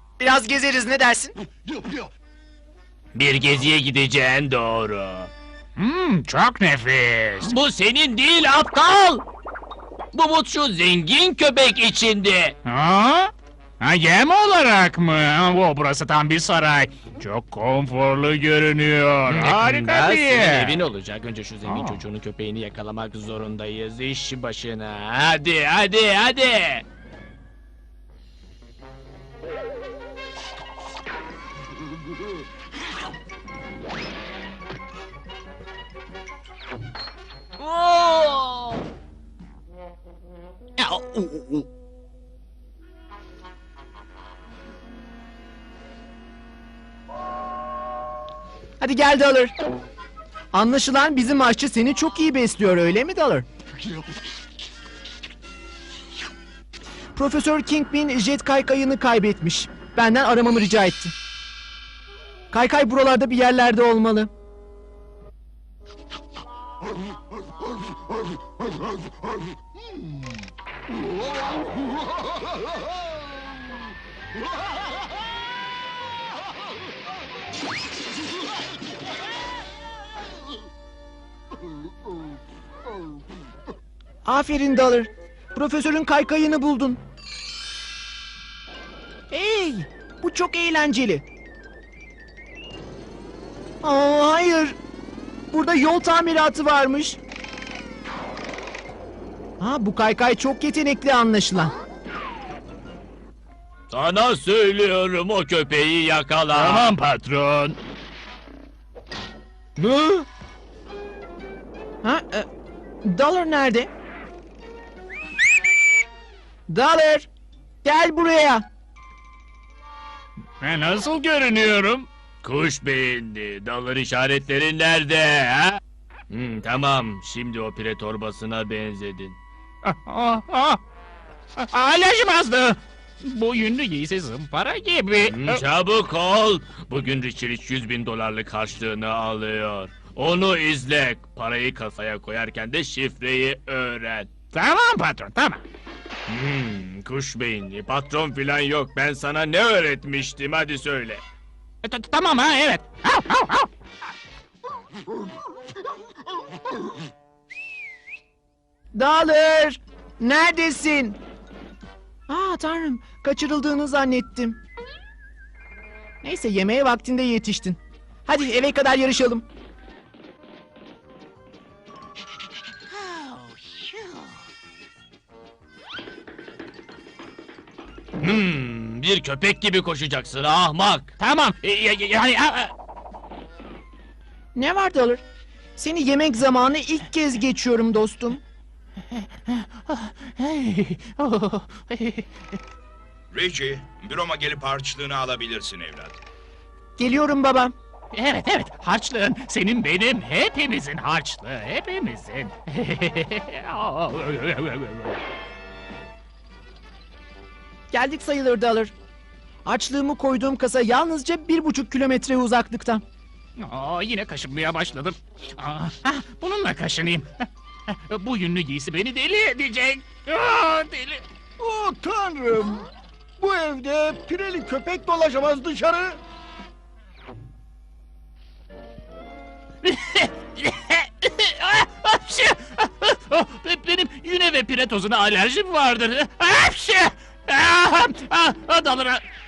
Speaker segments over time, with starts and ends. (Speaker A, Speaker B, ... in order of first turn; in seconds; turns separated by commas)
Speaker A: 0.2-1.4, Speaker B: 3.2-5.3, Speaker C: 4.7-5.0, Speaker C: 5.8-7.8, Speaker B: 7.5-9.2, Speaker B: 10.1-12.6, Speaker C: 12.7-12.9, Speaker C: 13.8-20.8, Speaker B: 19.3-26.8, Speaker C: 21.7-22.0, Speaker A: 48.8-49.5, Speaker A: 50.5-53.5, Speaker A: 57.1-61.1, Speaker A: 62.5-64.3, Speaker A: 84.2-87.0, Speaker A: 89.3-91.2, Speaker A: 93.8-94.8, Speaker A: 95.5-97.2, Speaker A: 99.6-101.7, Speaker B: 103.9-106.9, Speaker C: 103.9-104.3, Speaker C: 106.3-107.7, Speaker A: 112.0-112.5, Speaker A: 113.0-113.9, Speaker A: 116.7-117.3, Speaker A: 117.8-118.7, Speaker C: 120.6-122.1, Speaker B: 122.4-125.8, Speaker B: 126.3-129.4, Speaker C: 130.0-130.8, Speaker C: 131.6-132.8, Speaker C: 133.3-135.6, Speaker B: 135.2-144.3, Speaker C: 144.5-145.6, Speaker B: 146.3-151.2, Speaker C: 150.0-150.4, Speaker C: 151.8-153.7, Speaker A: 158.9-161.2, Speaker A: 162.3-164.6, Speaker A: 166.2-169.5, Speaker B: 178.2-181.1, Speaker C: 181.2-182.7, Speaker A: 184.6-185.2, Speaker A: 185.8-188.4, Speaker C: 189.9-192.2, Speaker D: 193.3-196.2, Speaker A: 197.0-197.7, Speaker C: 198.2-205.2, Speaker A: 207.9-208.9, Speaker A: 209.7-213.0, Speaker C: 213.6-217.2, Speaker C: 218.1-221.2, Speaker E: 221.6-222.8, Speaker E: 223.4-226.2, Speaker C: 229.8-239.2